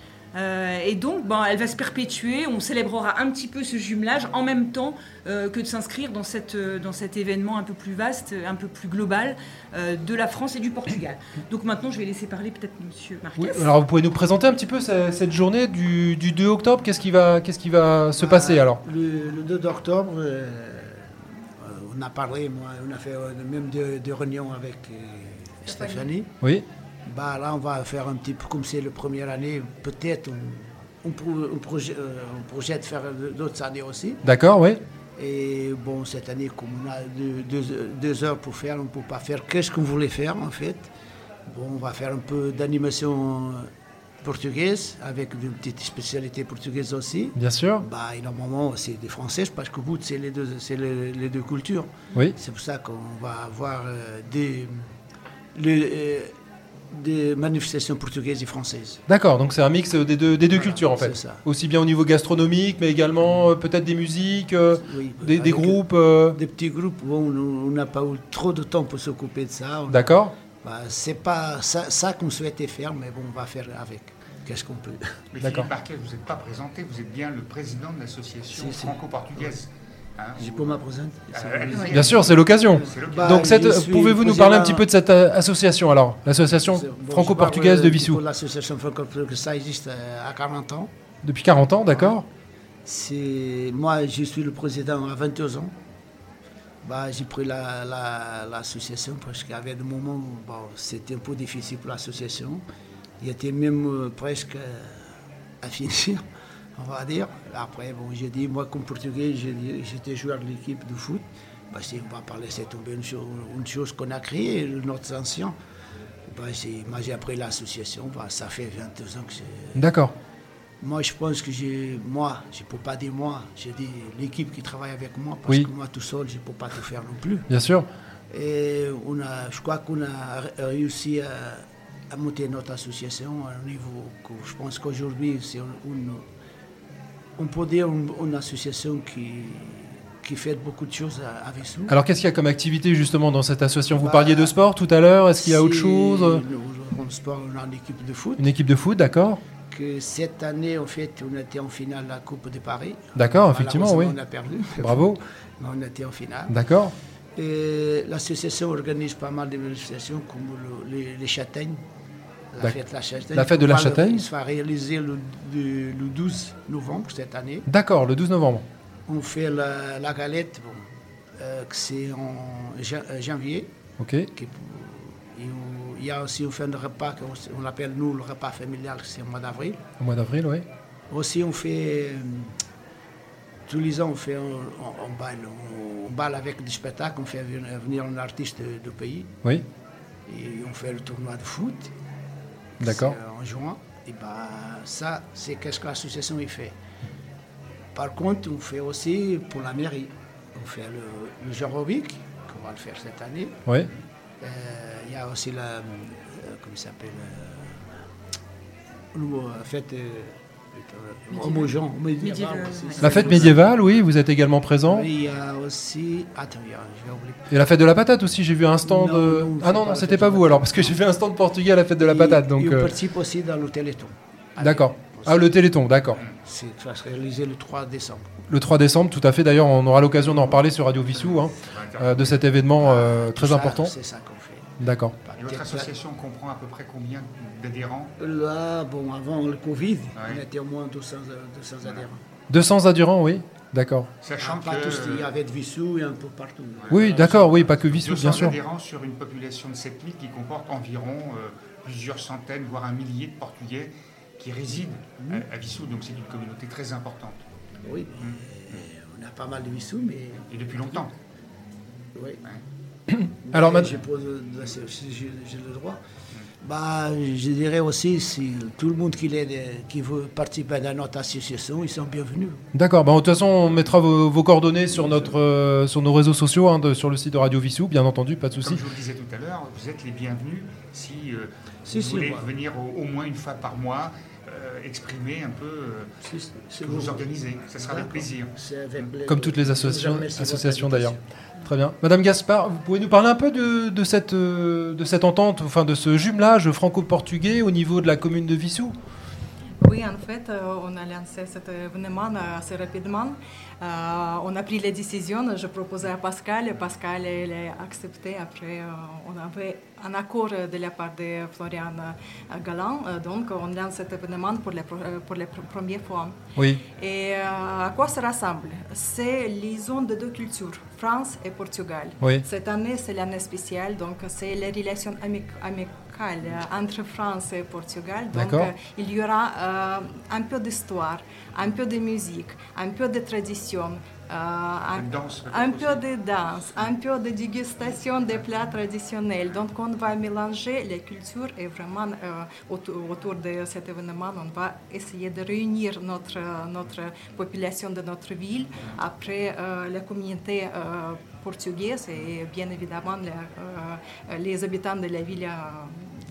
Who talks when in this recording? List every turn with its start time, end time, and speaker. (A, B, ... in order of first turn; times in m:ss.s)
0:00.3-0:13.7 A
0:13.4-0:18.8 B
0:18.2-0:26.3 C
0:25.6-0:26.1 D
0:27.1-0:34.2 C
0:34.2-0:34.8 B
0:35.2-0:40.9 C
0:41.5-0:43.7 C
0:44.2-0:54.8 C
0:47.4-0:47.8 B
0:55.6-0:56.3 C
0:56.9-0:59.0 C
0:59.1-1:06.4 B
1:00.5-1:01.4 C
1:04.9-1:15.1 C
1:09.9-1:10.3 B
1:15.3-1:20.8 E
1:15.4-1:15.7 B
1:18.5-1:19.6 C
1:20.4-1:22.2 C
1:21.3-1:23.3 E
1:21.9-1:28.2 B
1:22.8-1:24.9 C
1:26.6-1:30.9 C
1:31.2-1:32.2 B
1:31.9-1:32.2 C
1:32.8-1:35.8 C
1:36.8-1:42.6 C
1:43.2-1:45.1 C
1:45.6-1:46.2 C
1:46.8-1:55.6 C
1:56.3-1:59.8 C
1:59.8-2:00.1 B
2:00.8-2:07.4 C
2:07.5-2:07.9 B
2:08.3-2:16.2 C
2:17.4-2:22.0 C
2:21.9-2:26.4 B
2:23.9-2:24.5 C
2:25.4-2:28.5 C
2:28.4-2:29.4 B
2:29.7-2:36.5 C
2:33.2-2:34.2 B
2:34.8-2:35.2 B
2:36.5-2:36.9 B
2:37.4-2:41.8 C
2:42.5-2:47.6 C
2:43.3-2:44.2 B
2:47.7-2:48.6 B
2:49.1-2:50.8 C
2:51.4-2:53.7 C
2:54.0-2:54.3 B
2:54.4-2:59.8 C
3:00.0-3:00.7 B
3:01.1-3:02.5 C
3:03.7-3:09.3 C
3:10.3-3:11.9 C
3:12.8-3:16.7 C
3:12.8-3:13.2 B
3:18.0-3:23.6 C
3:24.4-3:27.9 C
3:29.1-3:33.8 C
3:31.3-3:33.6 A
3:33.0-3:35.1 B
3:34.8-3:37.5 C
3:37.5-3:42.9 B
3:38.8-3:41.0 C
3:42.0-3:45.6 C
3:44.6-3:46.2 B
3:46.3-3:48.3 C
3:48.5-3:53.9 B
3:51.1-3:52.5 E
3:52.8-3:54.7 C
3:54.8-3:55.2 B
3:55.2-3:55.9 C
3:55.4-3:58.1 E
3:58.2-4:02.2 C
4:00.2-4:00.4 E
4:02.5-4:04.1 B
4:04.2-4:05.3 E
4:04.4-4:07.7 C
4:06.8-4:17.4 E
4:06.9-4:08.6 B
4:17.8-4:20.8 C
4:18.2-4:18.8 E
4:20.4-4:21.1 E
4:22.2-4:22.4 C
4:23.1-4:23.9 B
4:23.5-4:26.0 C
4:26.6-4:32.6 C
4:32.7-4:38.8 B
4:34.9-4:35.3 C
4:38.5-4:46.1 E
4:41.9-4:42.5 C
4:46.2-4:51.2 C
4:46.8-4:49.1 E
4:49.3-4:59.0 B
4:59.8-5:16.4 D
5:16.9-5:56.0 D
5:28.3-5:28.7 B
5:34.9-5:36.0 E